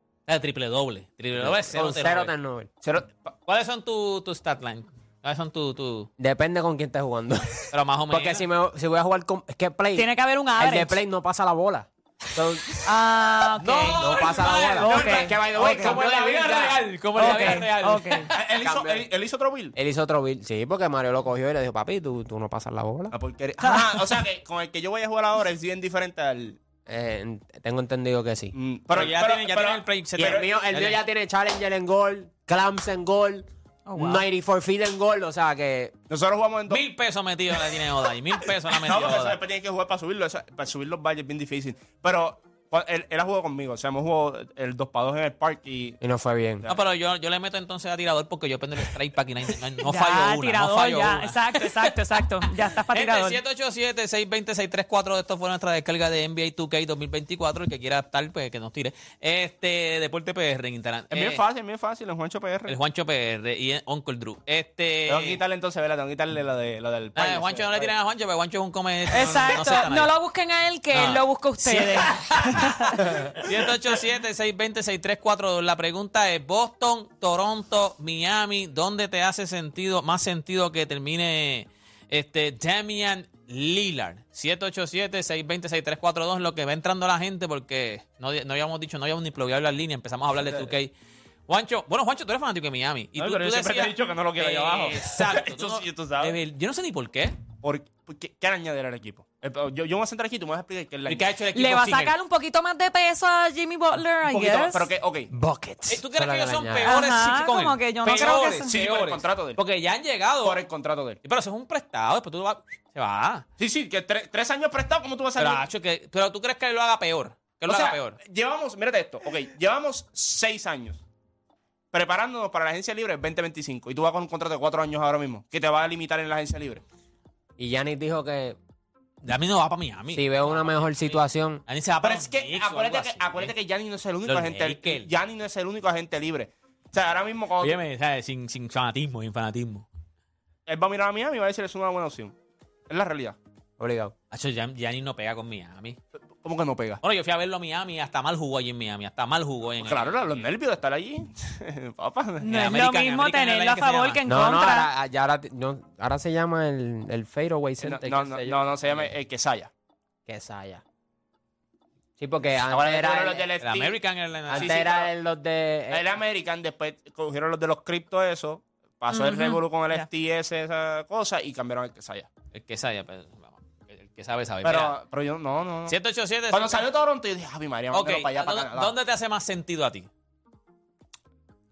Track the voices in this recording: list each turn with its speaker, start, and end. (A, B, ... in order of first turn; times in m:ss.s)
0:00.3-0:02.3 A
0:01.4-0:02.7 B
0:02.8-0:03.3 C
0:03.5-0:06.1 A
0:06.2-0:12.7 B
0:07.7-0:08.4 A
0:09.9-0:11.0 D
0:12.8-0:16.0 D
0:13.6-0:18.3 A
0:13.9-0:16.7 B
0:14.2-0:17.6 C
0:17.2-0:18.3 D
0:18.3-0:19.7 C
0:18.6-0:19.0 B
0:19.8-0:23.1 B
0:23.1-0:26.6 C
0:23.6-0:24.2 D
0:26.9-0:28.5 B
0:28.5-0:30.4 C
0:28.9-0:31.0 A
0:30.2-0:35.9 B
0:33.8-0:34.2 D
0:36.1-0:36.8 C
0:36.7-0:39.4 A
0:38.7-0:46.0 C
0:46.0-0:46.6 B
0:46.7-1:01.4 A
0:49.8-0:53.4 D
1:01.1-1:02.8 C
1:02.6-1:05.4 A
1:05.1-1:07.9 C
1:07.1-1:10.1 A
1:09.1-1:13.2 D
1:10.9-1:30.9 A
1:31.5-1:37.4 A
1:33.2-1:36.4 C
1:37.6-1:41.2 C
1:41.0-1:42.1 A
1:41.5-1:44.9 D
1:44.3-1:45.3 C
1:45.3-1:46.9 B
1:45.9-1:50.6 A
1:46.8-1:48.7 D
1:48.0-1:49.6 C
1:50.4-1:51.2 C
1:51.2-1:53.4 A
1:53.6-1:55.6 C
1:55.4-1:58.2 A
1:57.7-2:01.0 C
2:01.9-2:06.8 C
2:07.6-2:08.6 B
2:09.2-2:13.5 A
2:10.1-2:11.6 B
2:12.0-2:17.8 C
2:14.2-2:15.1 A
2:17.6-2:19.8 A
2:20.7-2:22.3 C
2:22.9-2:23.4 C
2:23.8-2:24.1 B
2:24.3-2:26.0 A
2:26.4-2:27.0 C
2:27.0-2:30.2 A
2:29.8-2:32.5 C
2:32.4-2:34.9 D
2:32.4-2:34.2 A
2:34.2-2:39.1 B
2:37.8-2:39.7 C
2:40.3-2:40.8 B
2:42.2-2:43.5 B
2:42.7-2:44.0 C
2:43.6-2:44.8 A
2:44.5-2:46.0 B
2:44.5-2:45.1 C
2:45.9-2:52.3 C
2:49.1-2:50.0 D
2:52.5-2:55.0 A
2:54.6-2:56.0 C
2:55.9-2:56.9 A
2:56.5-2:58.9 C
2:57.9-3:00.1 A